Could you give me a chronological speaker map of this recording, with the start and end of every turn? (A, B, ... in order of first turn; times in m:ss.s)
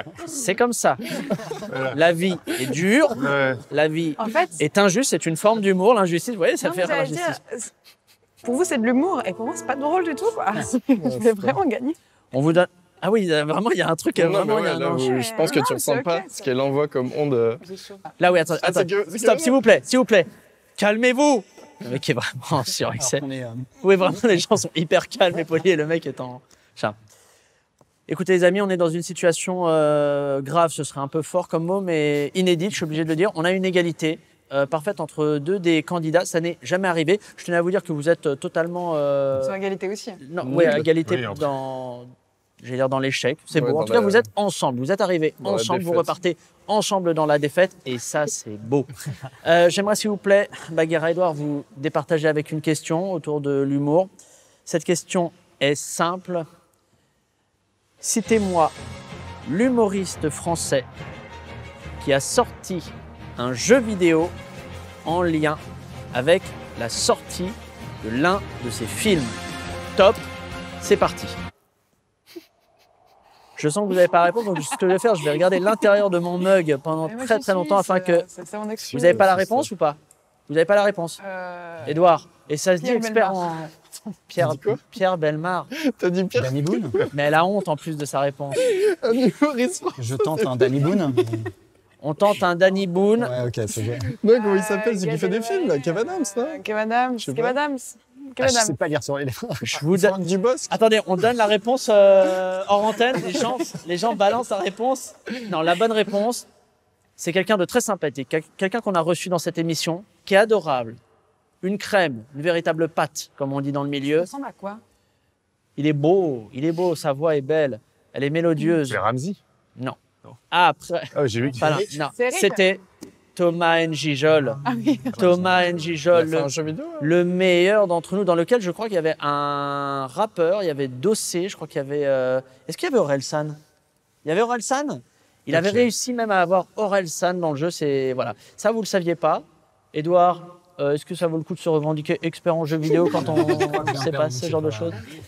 0:00.2-0:07.4 A
0:01.7-0:02.0 B
0:03.2-0:03.6 B
0:04.2-0:04.6 C
0:06.6-0:07.7 C
0:08.4-0:12.0 C
0:11.0-0:11.4 D
0:12.3-0:15.2 A
0:14.2-0:17.7 D
0:15.0-0:16.5 C
0:18.2-0:23.2 A
0:18.6-0:19.6 D
0:23.0-0:23.7 E
0:23.8-0:27.0 A
0:28.1-0:39.6 A
0:39.4-0:40.2 C
0:40.2-0:42.1 A
0:40.4-0:40.9 D
0:41.0-0:41.5 B
0:42.6-0:48.9 A
0:43.6-0:44.3 D
0:45.4-0:46.1 D
0:49.4-0:54.1 A
0:54.7-0:56.5 A
0:58.0-0:58.7 A
0:59.4-1:00.9 A
1:02.0-1:04.3 A
1:05.0-1:05.6 A
1:06.1-1:09.4 A
1:09.9-1:10.2 A
1:10.8-1:11.4 A
1:13.6-1:18.3 A
1:17.0-1:19.3 C
1:18.8-1:19.7 D
1:19.0-1:20.0 A
1:20.5-1:21.2 A
1:21.2-1:22.0 C
1:21.8-1:23.7 A
1:22.8-1:24.2 C
1:24.3-1:25.7 A
1:24.4-1:24.8 D
1:25.8-1:27.1 D
1:26.3-1:27.1 E
1:27.1-1:28.6 A
1:28.5-1:31.3 D
1:30.0-1:31.5 E
1:32.0-1:33.4 A
1:33.2-1:34.2 E
1:33.8-1:36.6 D
1:34.3-1:38.8 C
1:37.2-1:37.6 D
1:38.4-1:39.8 E
1:39.6-1:46.5 A
1:39.8-1:40.8 D
1:47.2-1:51.0 A
1:51.6-1:54.3 A
1:54.2-1:54.8 C
1:55.8-1:59.0 A
1:58.9-1:59.4 B
1:59.8-2:02.8 A
2:01.2-2:01.9 B
2:02.0-2:02.6 C
2:03.4-2:13.6 A
2:04.6-2:05.4 C
2:05.2-2:05.5 D
2:06.1-2:07.1 D
2:14.2-2:25.0 A
2:15.5-2:15.9 D
2:23.1-2:25.0 E